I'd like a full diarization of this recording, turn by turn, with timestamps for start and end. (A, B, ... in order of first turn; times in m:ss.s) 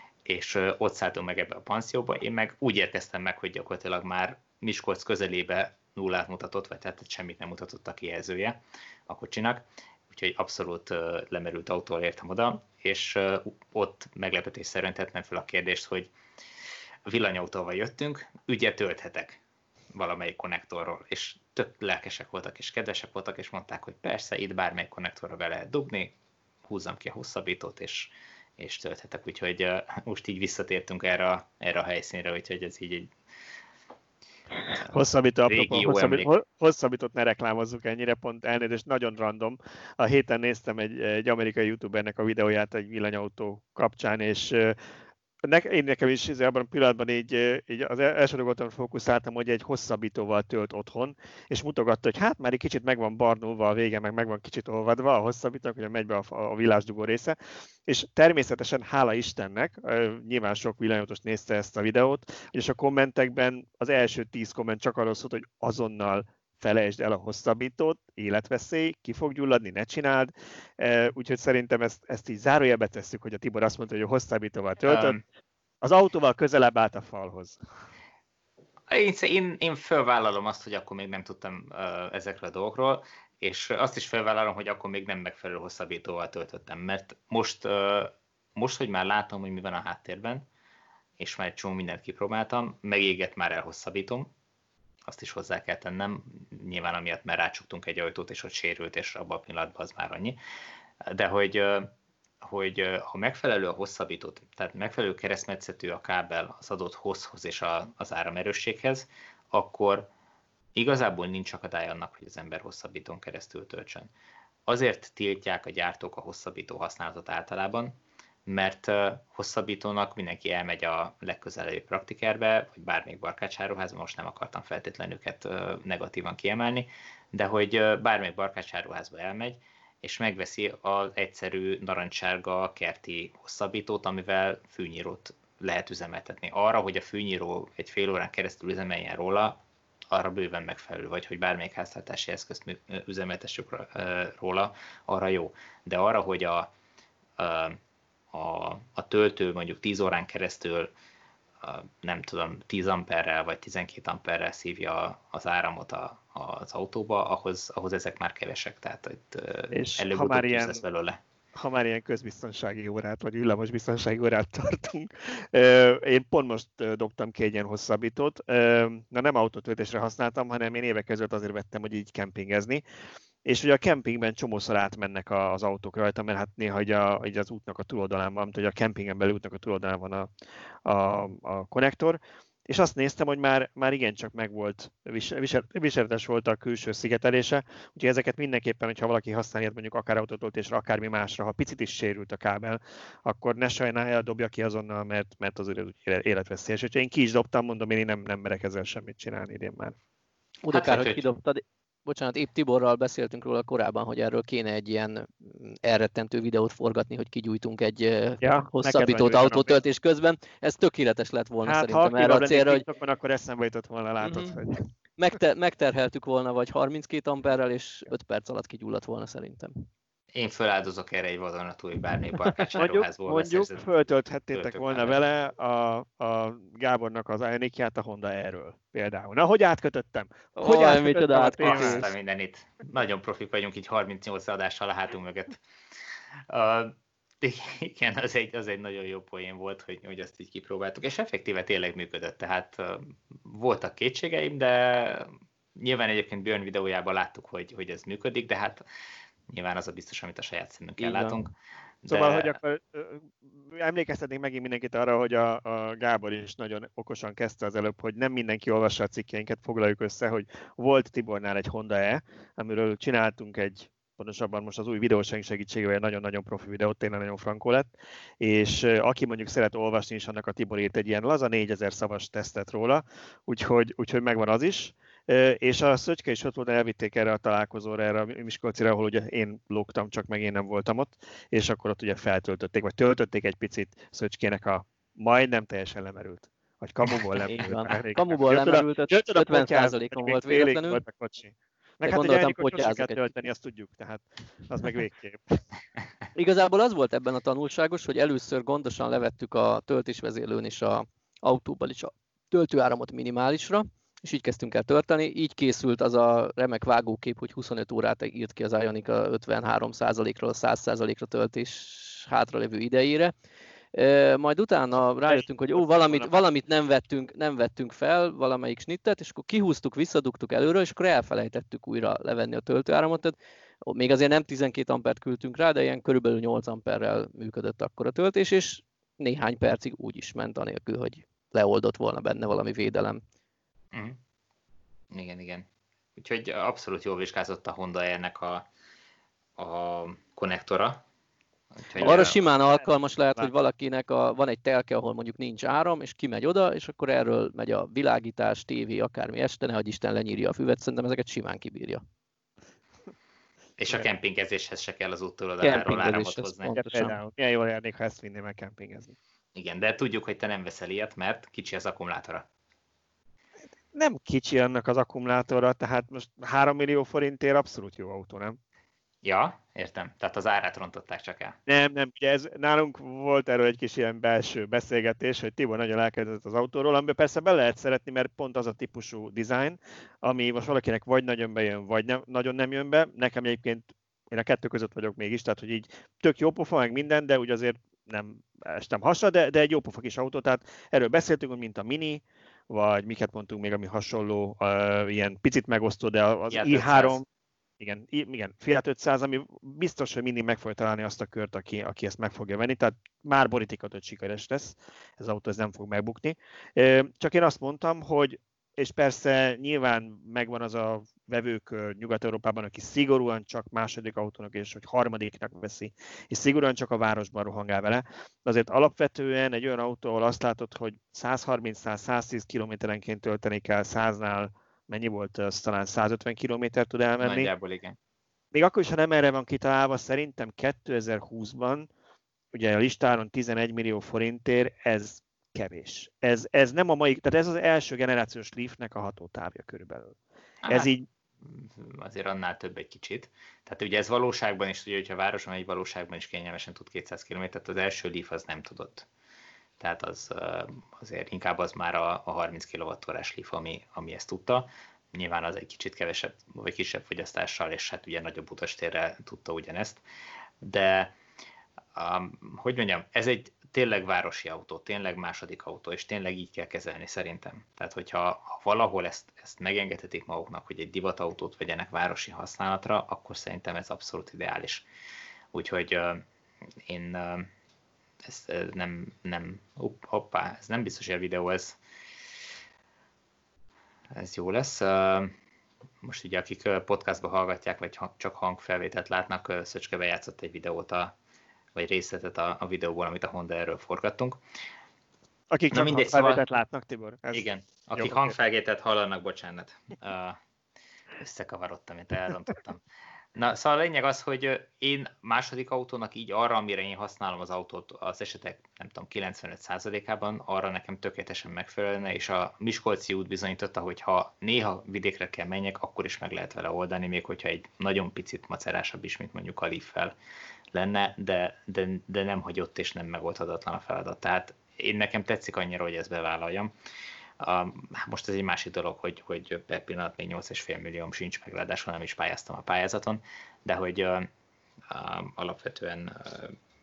0:00.2-0:16.1 A
0:17.0-0:19.4 A
0:19.9-0:26.1 A
0:26.7-0:33.1 A
0:34.8-0:44.8 B
0:35.4-0:36.3 A
0:45.4-0:57.4 B
0:57.9-1:15.2 B
1:14.8-1:15.2 A
1:15.8-1:17.6 B
1:18.9-1:30.4 A
1:31.2-1:34.3 A
1:35.1-1:40.4 A
1:41.0-1:50.1 A
1:50.7-1:54.1 A
1:54.7-1:57.9 A
1:58.4-2:26.7 A
2:27.4-2:27.8 A
2:28.3-2:30.9 A
2:31.6-2:41.2 A
2:39.7-2:40.8 B
2:41.5-2:52.8 B
2:53.4-3:00.3 B
3:00.8-3:20.0 B
3:20.6-3:32.8 C
3:20.7-3:21.3 A
3:28.4-3:29.8 B
3:31.6-3:34.8 B
3:34.2-3:34.6 C
3:35.2-3:39.9 C
3:40.3-3:43.8 A
3:42.8-3:52.1 B
3:44.5-3:45.2 A
3:50.6-3:52.0 C
3:51.6-3:55.6 A
3:56.5-4:08.8 A
4:09.5-4:12.6 A
4:11.0-4:11.4 C
4:12.1-4:55.6 B
4:47.4-4:51.0 C
4:52.0-4:53.5 C
4:56.3-5:13.3 C
5:13.9-5:33.2 C
5:15.3-5:16.4 B
5:33.9-5:34.2 A
5:35.1-5:35.6 A
5:36.2-5:38.7 A
5:39.6-5:41.0 A
5:41.8-5:42.4 A
5:42.0-5:42.3 B
5:42.0-5:52.0 C
5:53.8-5:56.7 A
5:55.6-5:57.2 C
5:56.7-5:59.2 B
5:59.5-6:02.4 A
6:03.9-6:08.6 B
6:09.2-6:11.6 A
6:11.7-6:37.2 B
6:36.5-6:37.2 A
6:37.8-7:07.5 B
7:07.2-7:08.0 A
7:08.5-7:11.9 B
7:12.5-7:20.2 B
7:20.6-7:29.1 A
7:20.7-7:21.0 B
7:29.8-7:40.0 A
7:40.6-7:41.1 A
7:41.9-7:54.8 A
7:55.5-7:56.2 A
7:56.8-7:57.5 A
7:58.2-8:01.8 A
8:04.1-8:05.3 A
8:06.0-8:11.1 A
8:11.7-8:14.4 A
8:15.5-8:17.4 B
8:15.7-8:16.4 A
8:17.3-8:20.4 A
8:18.0-8:18.3 B
8:21.2-8:22.8 A
8:23.3-8:40.1 A
8:40.7-8:46.7 A
8:47.4-8:54.3 A
8:54.9-8:56.6 A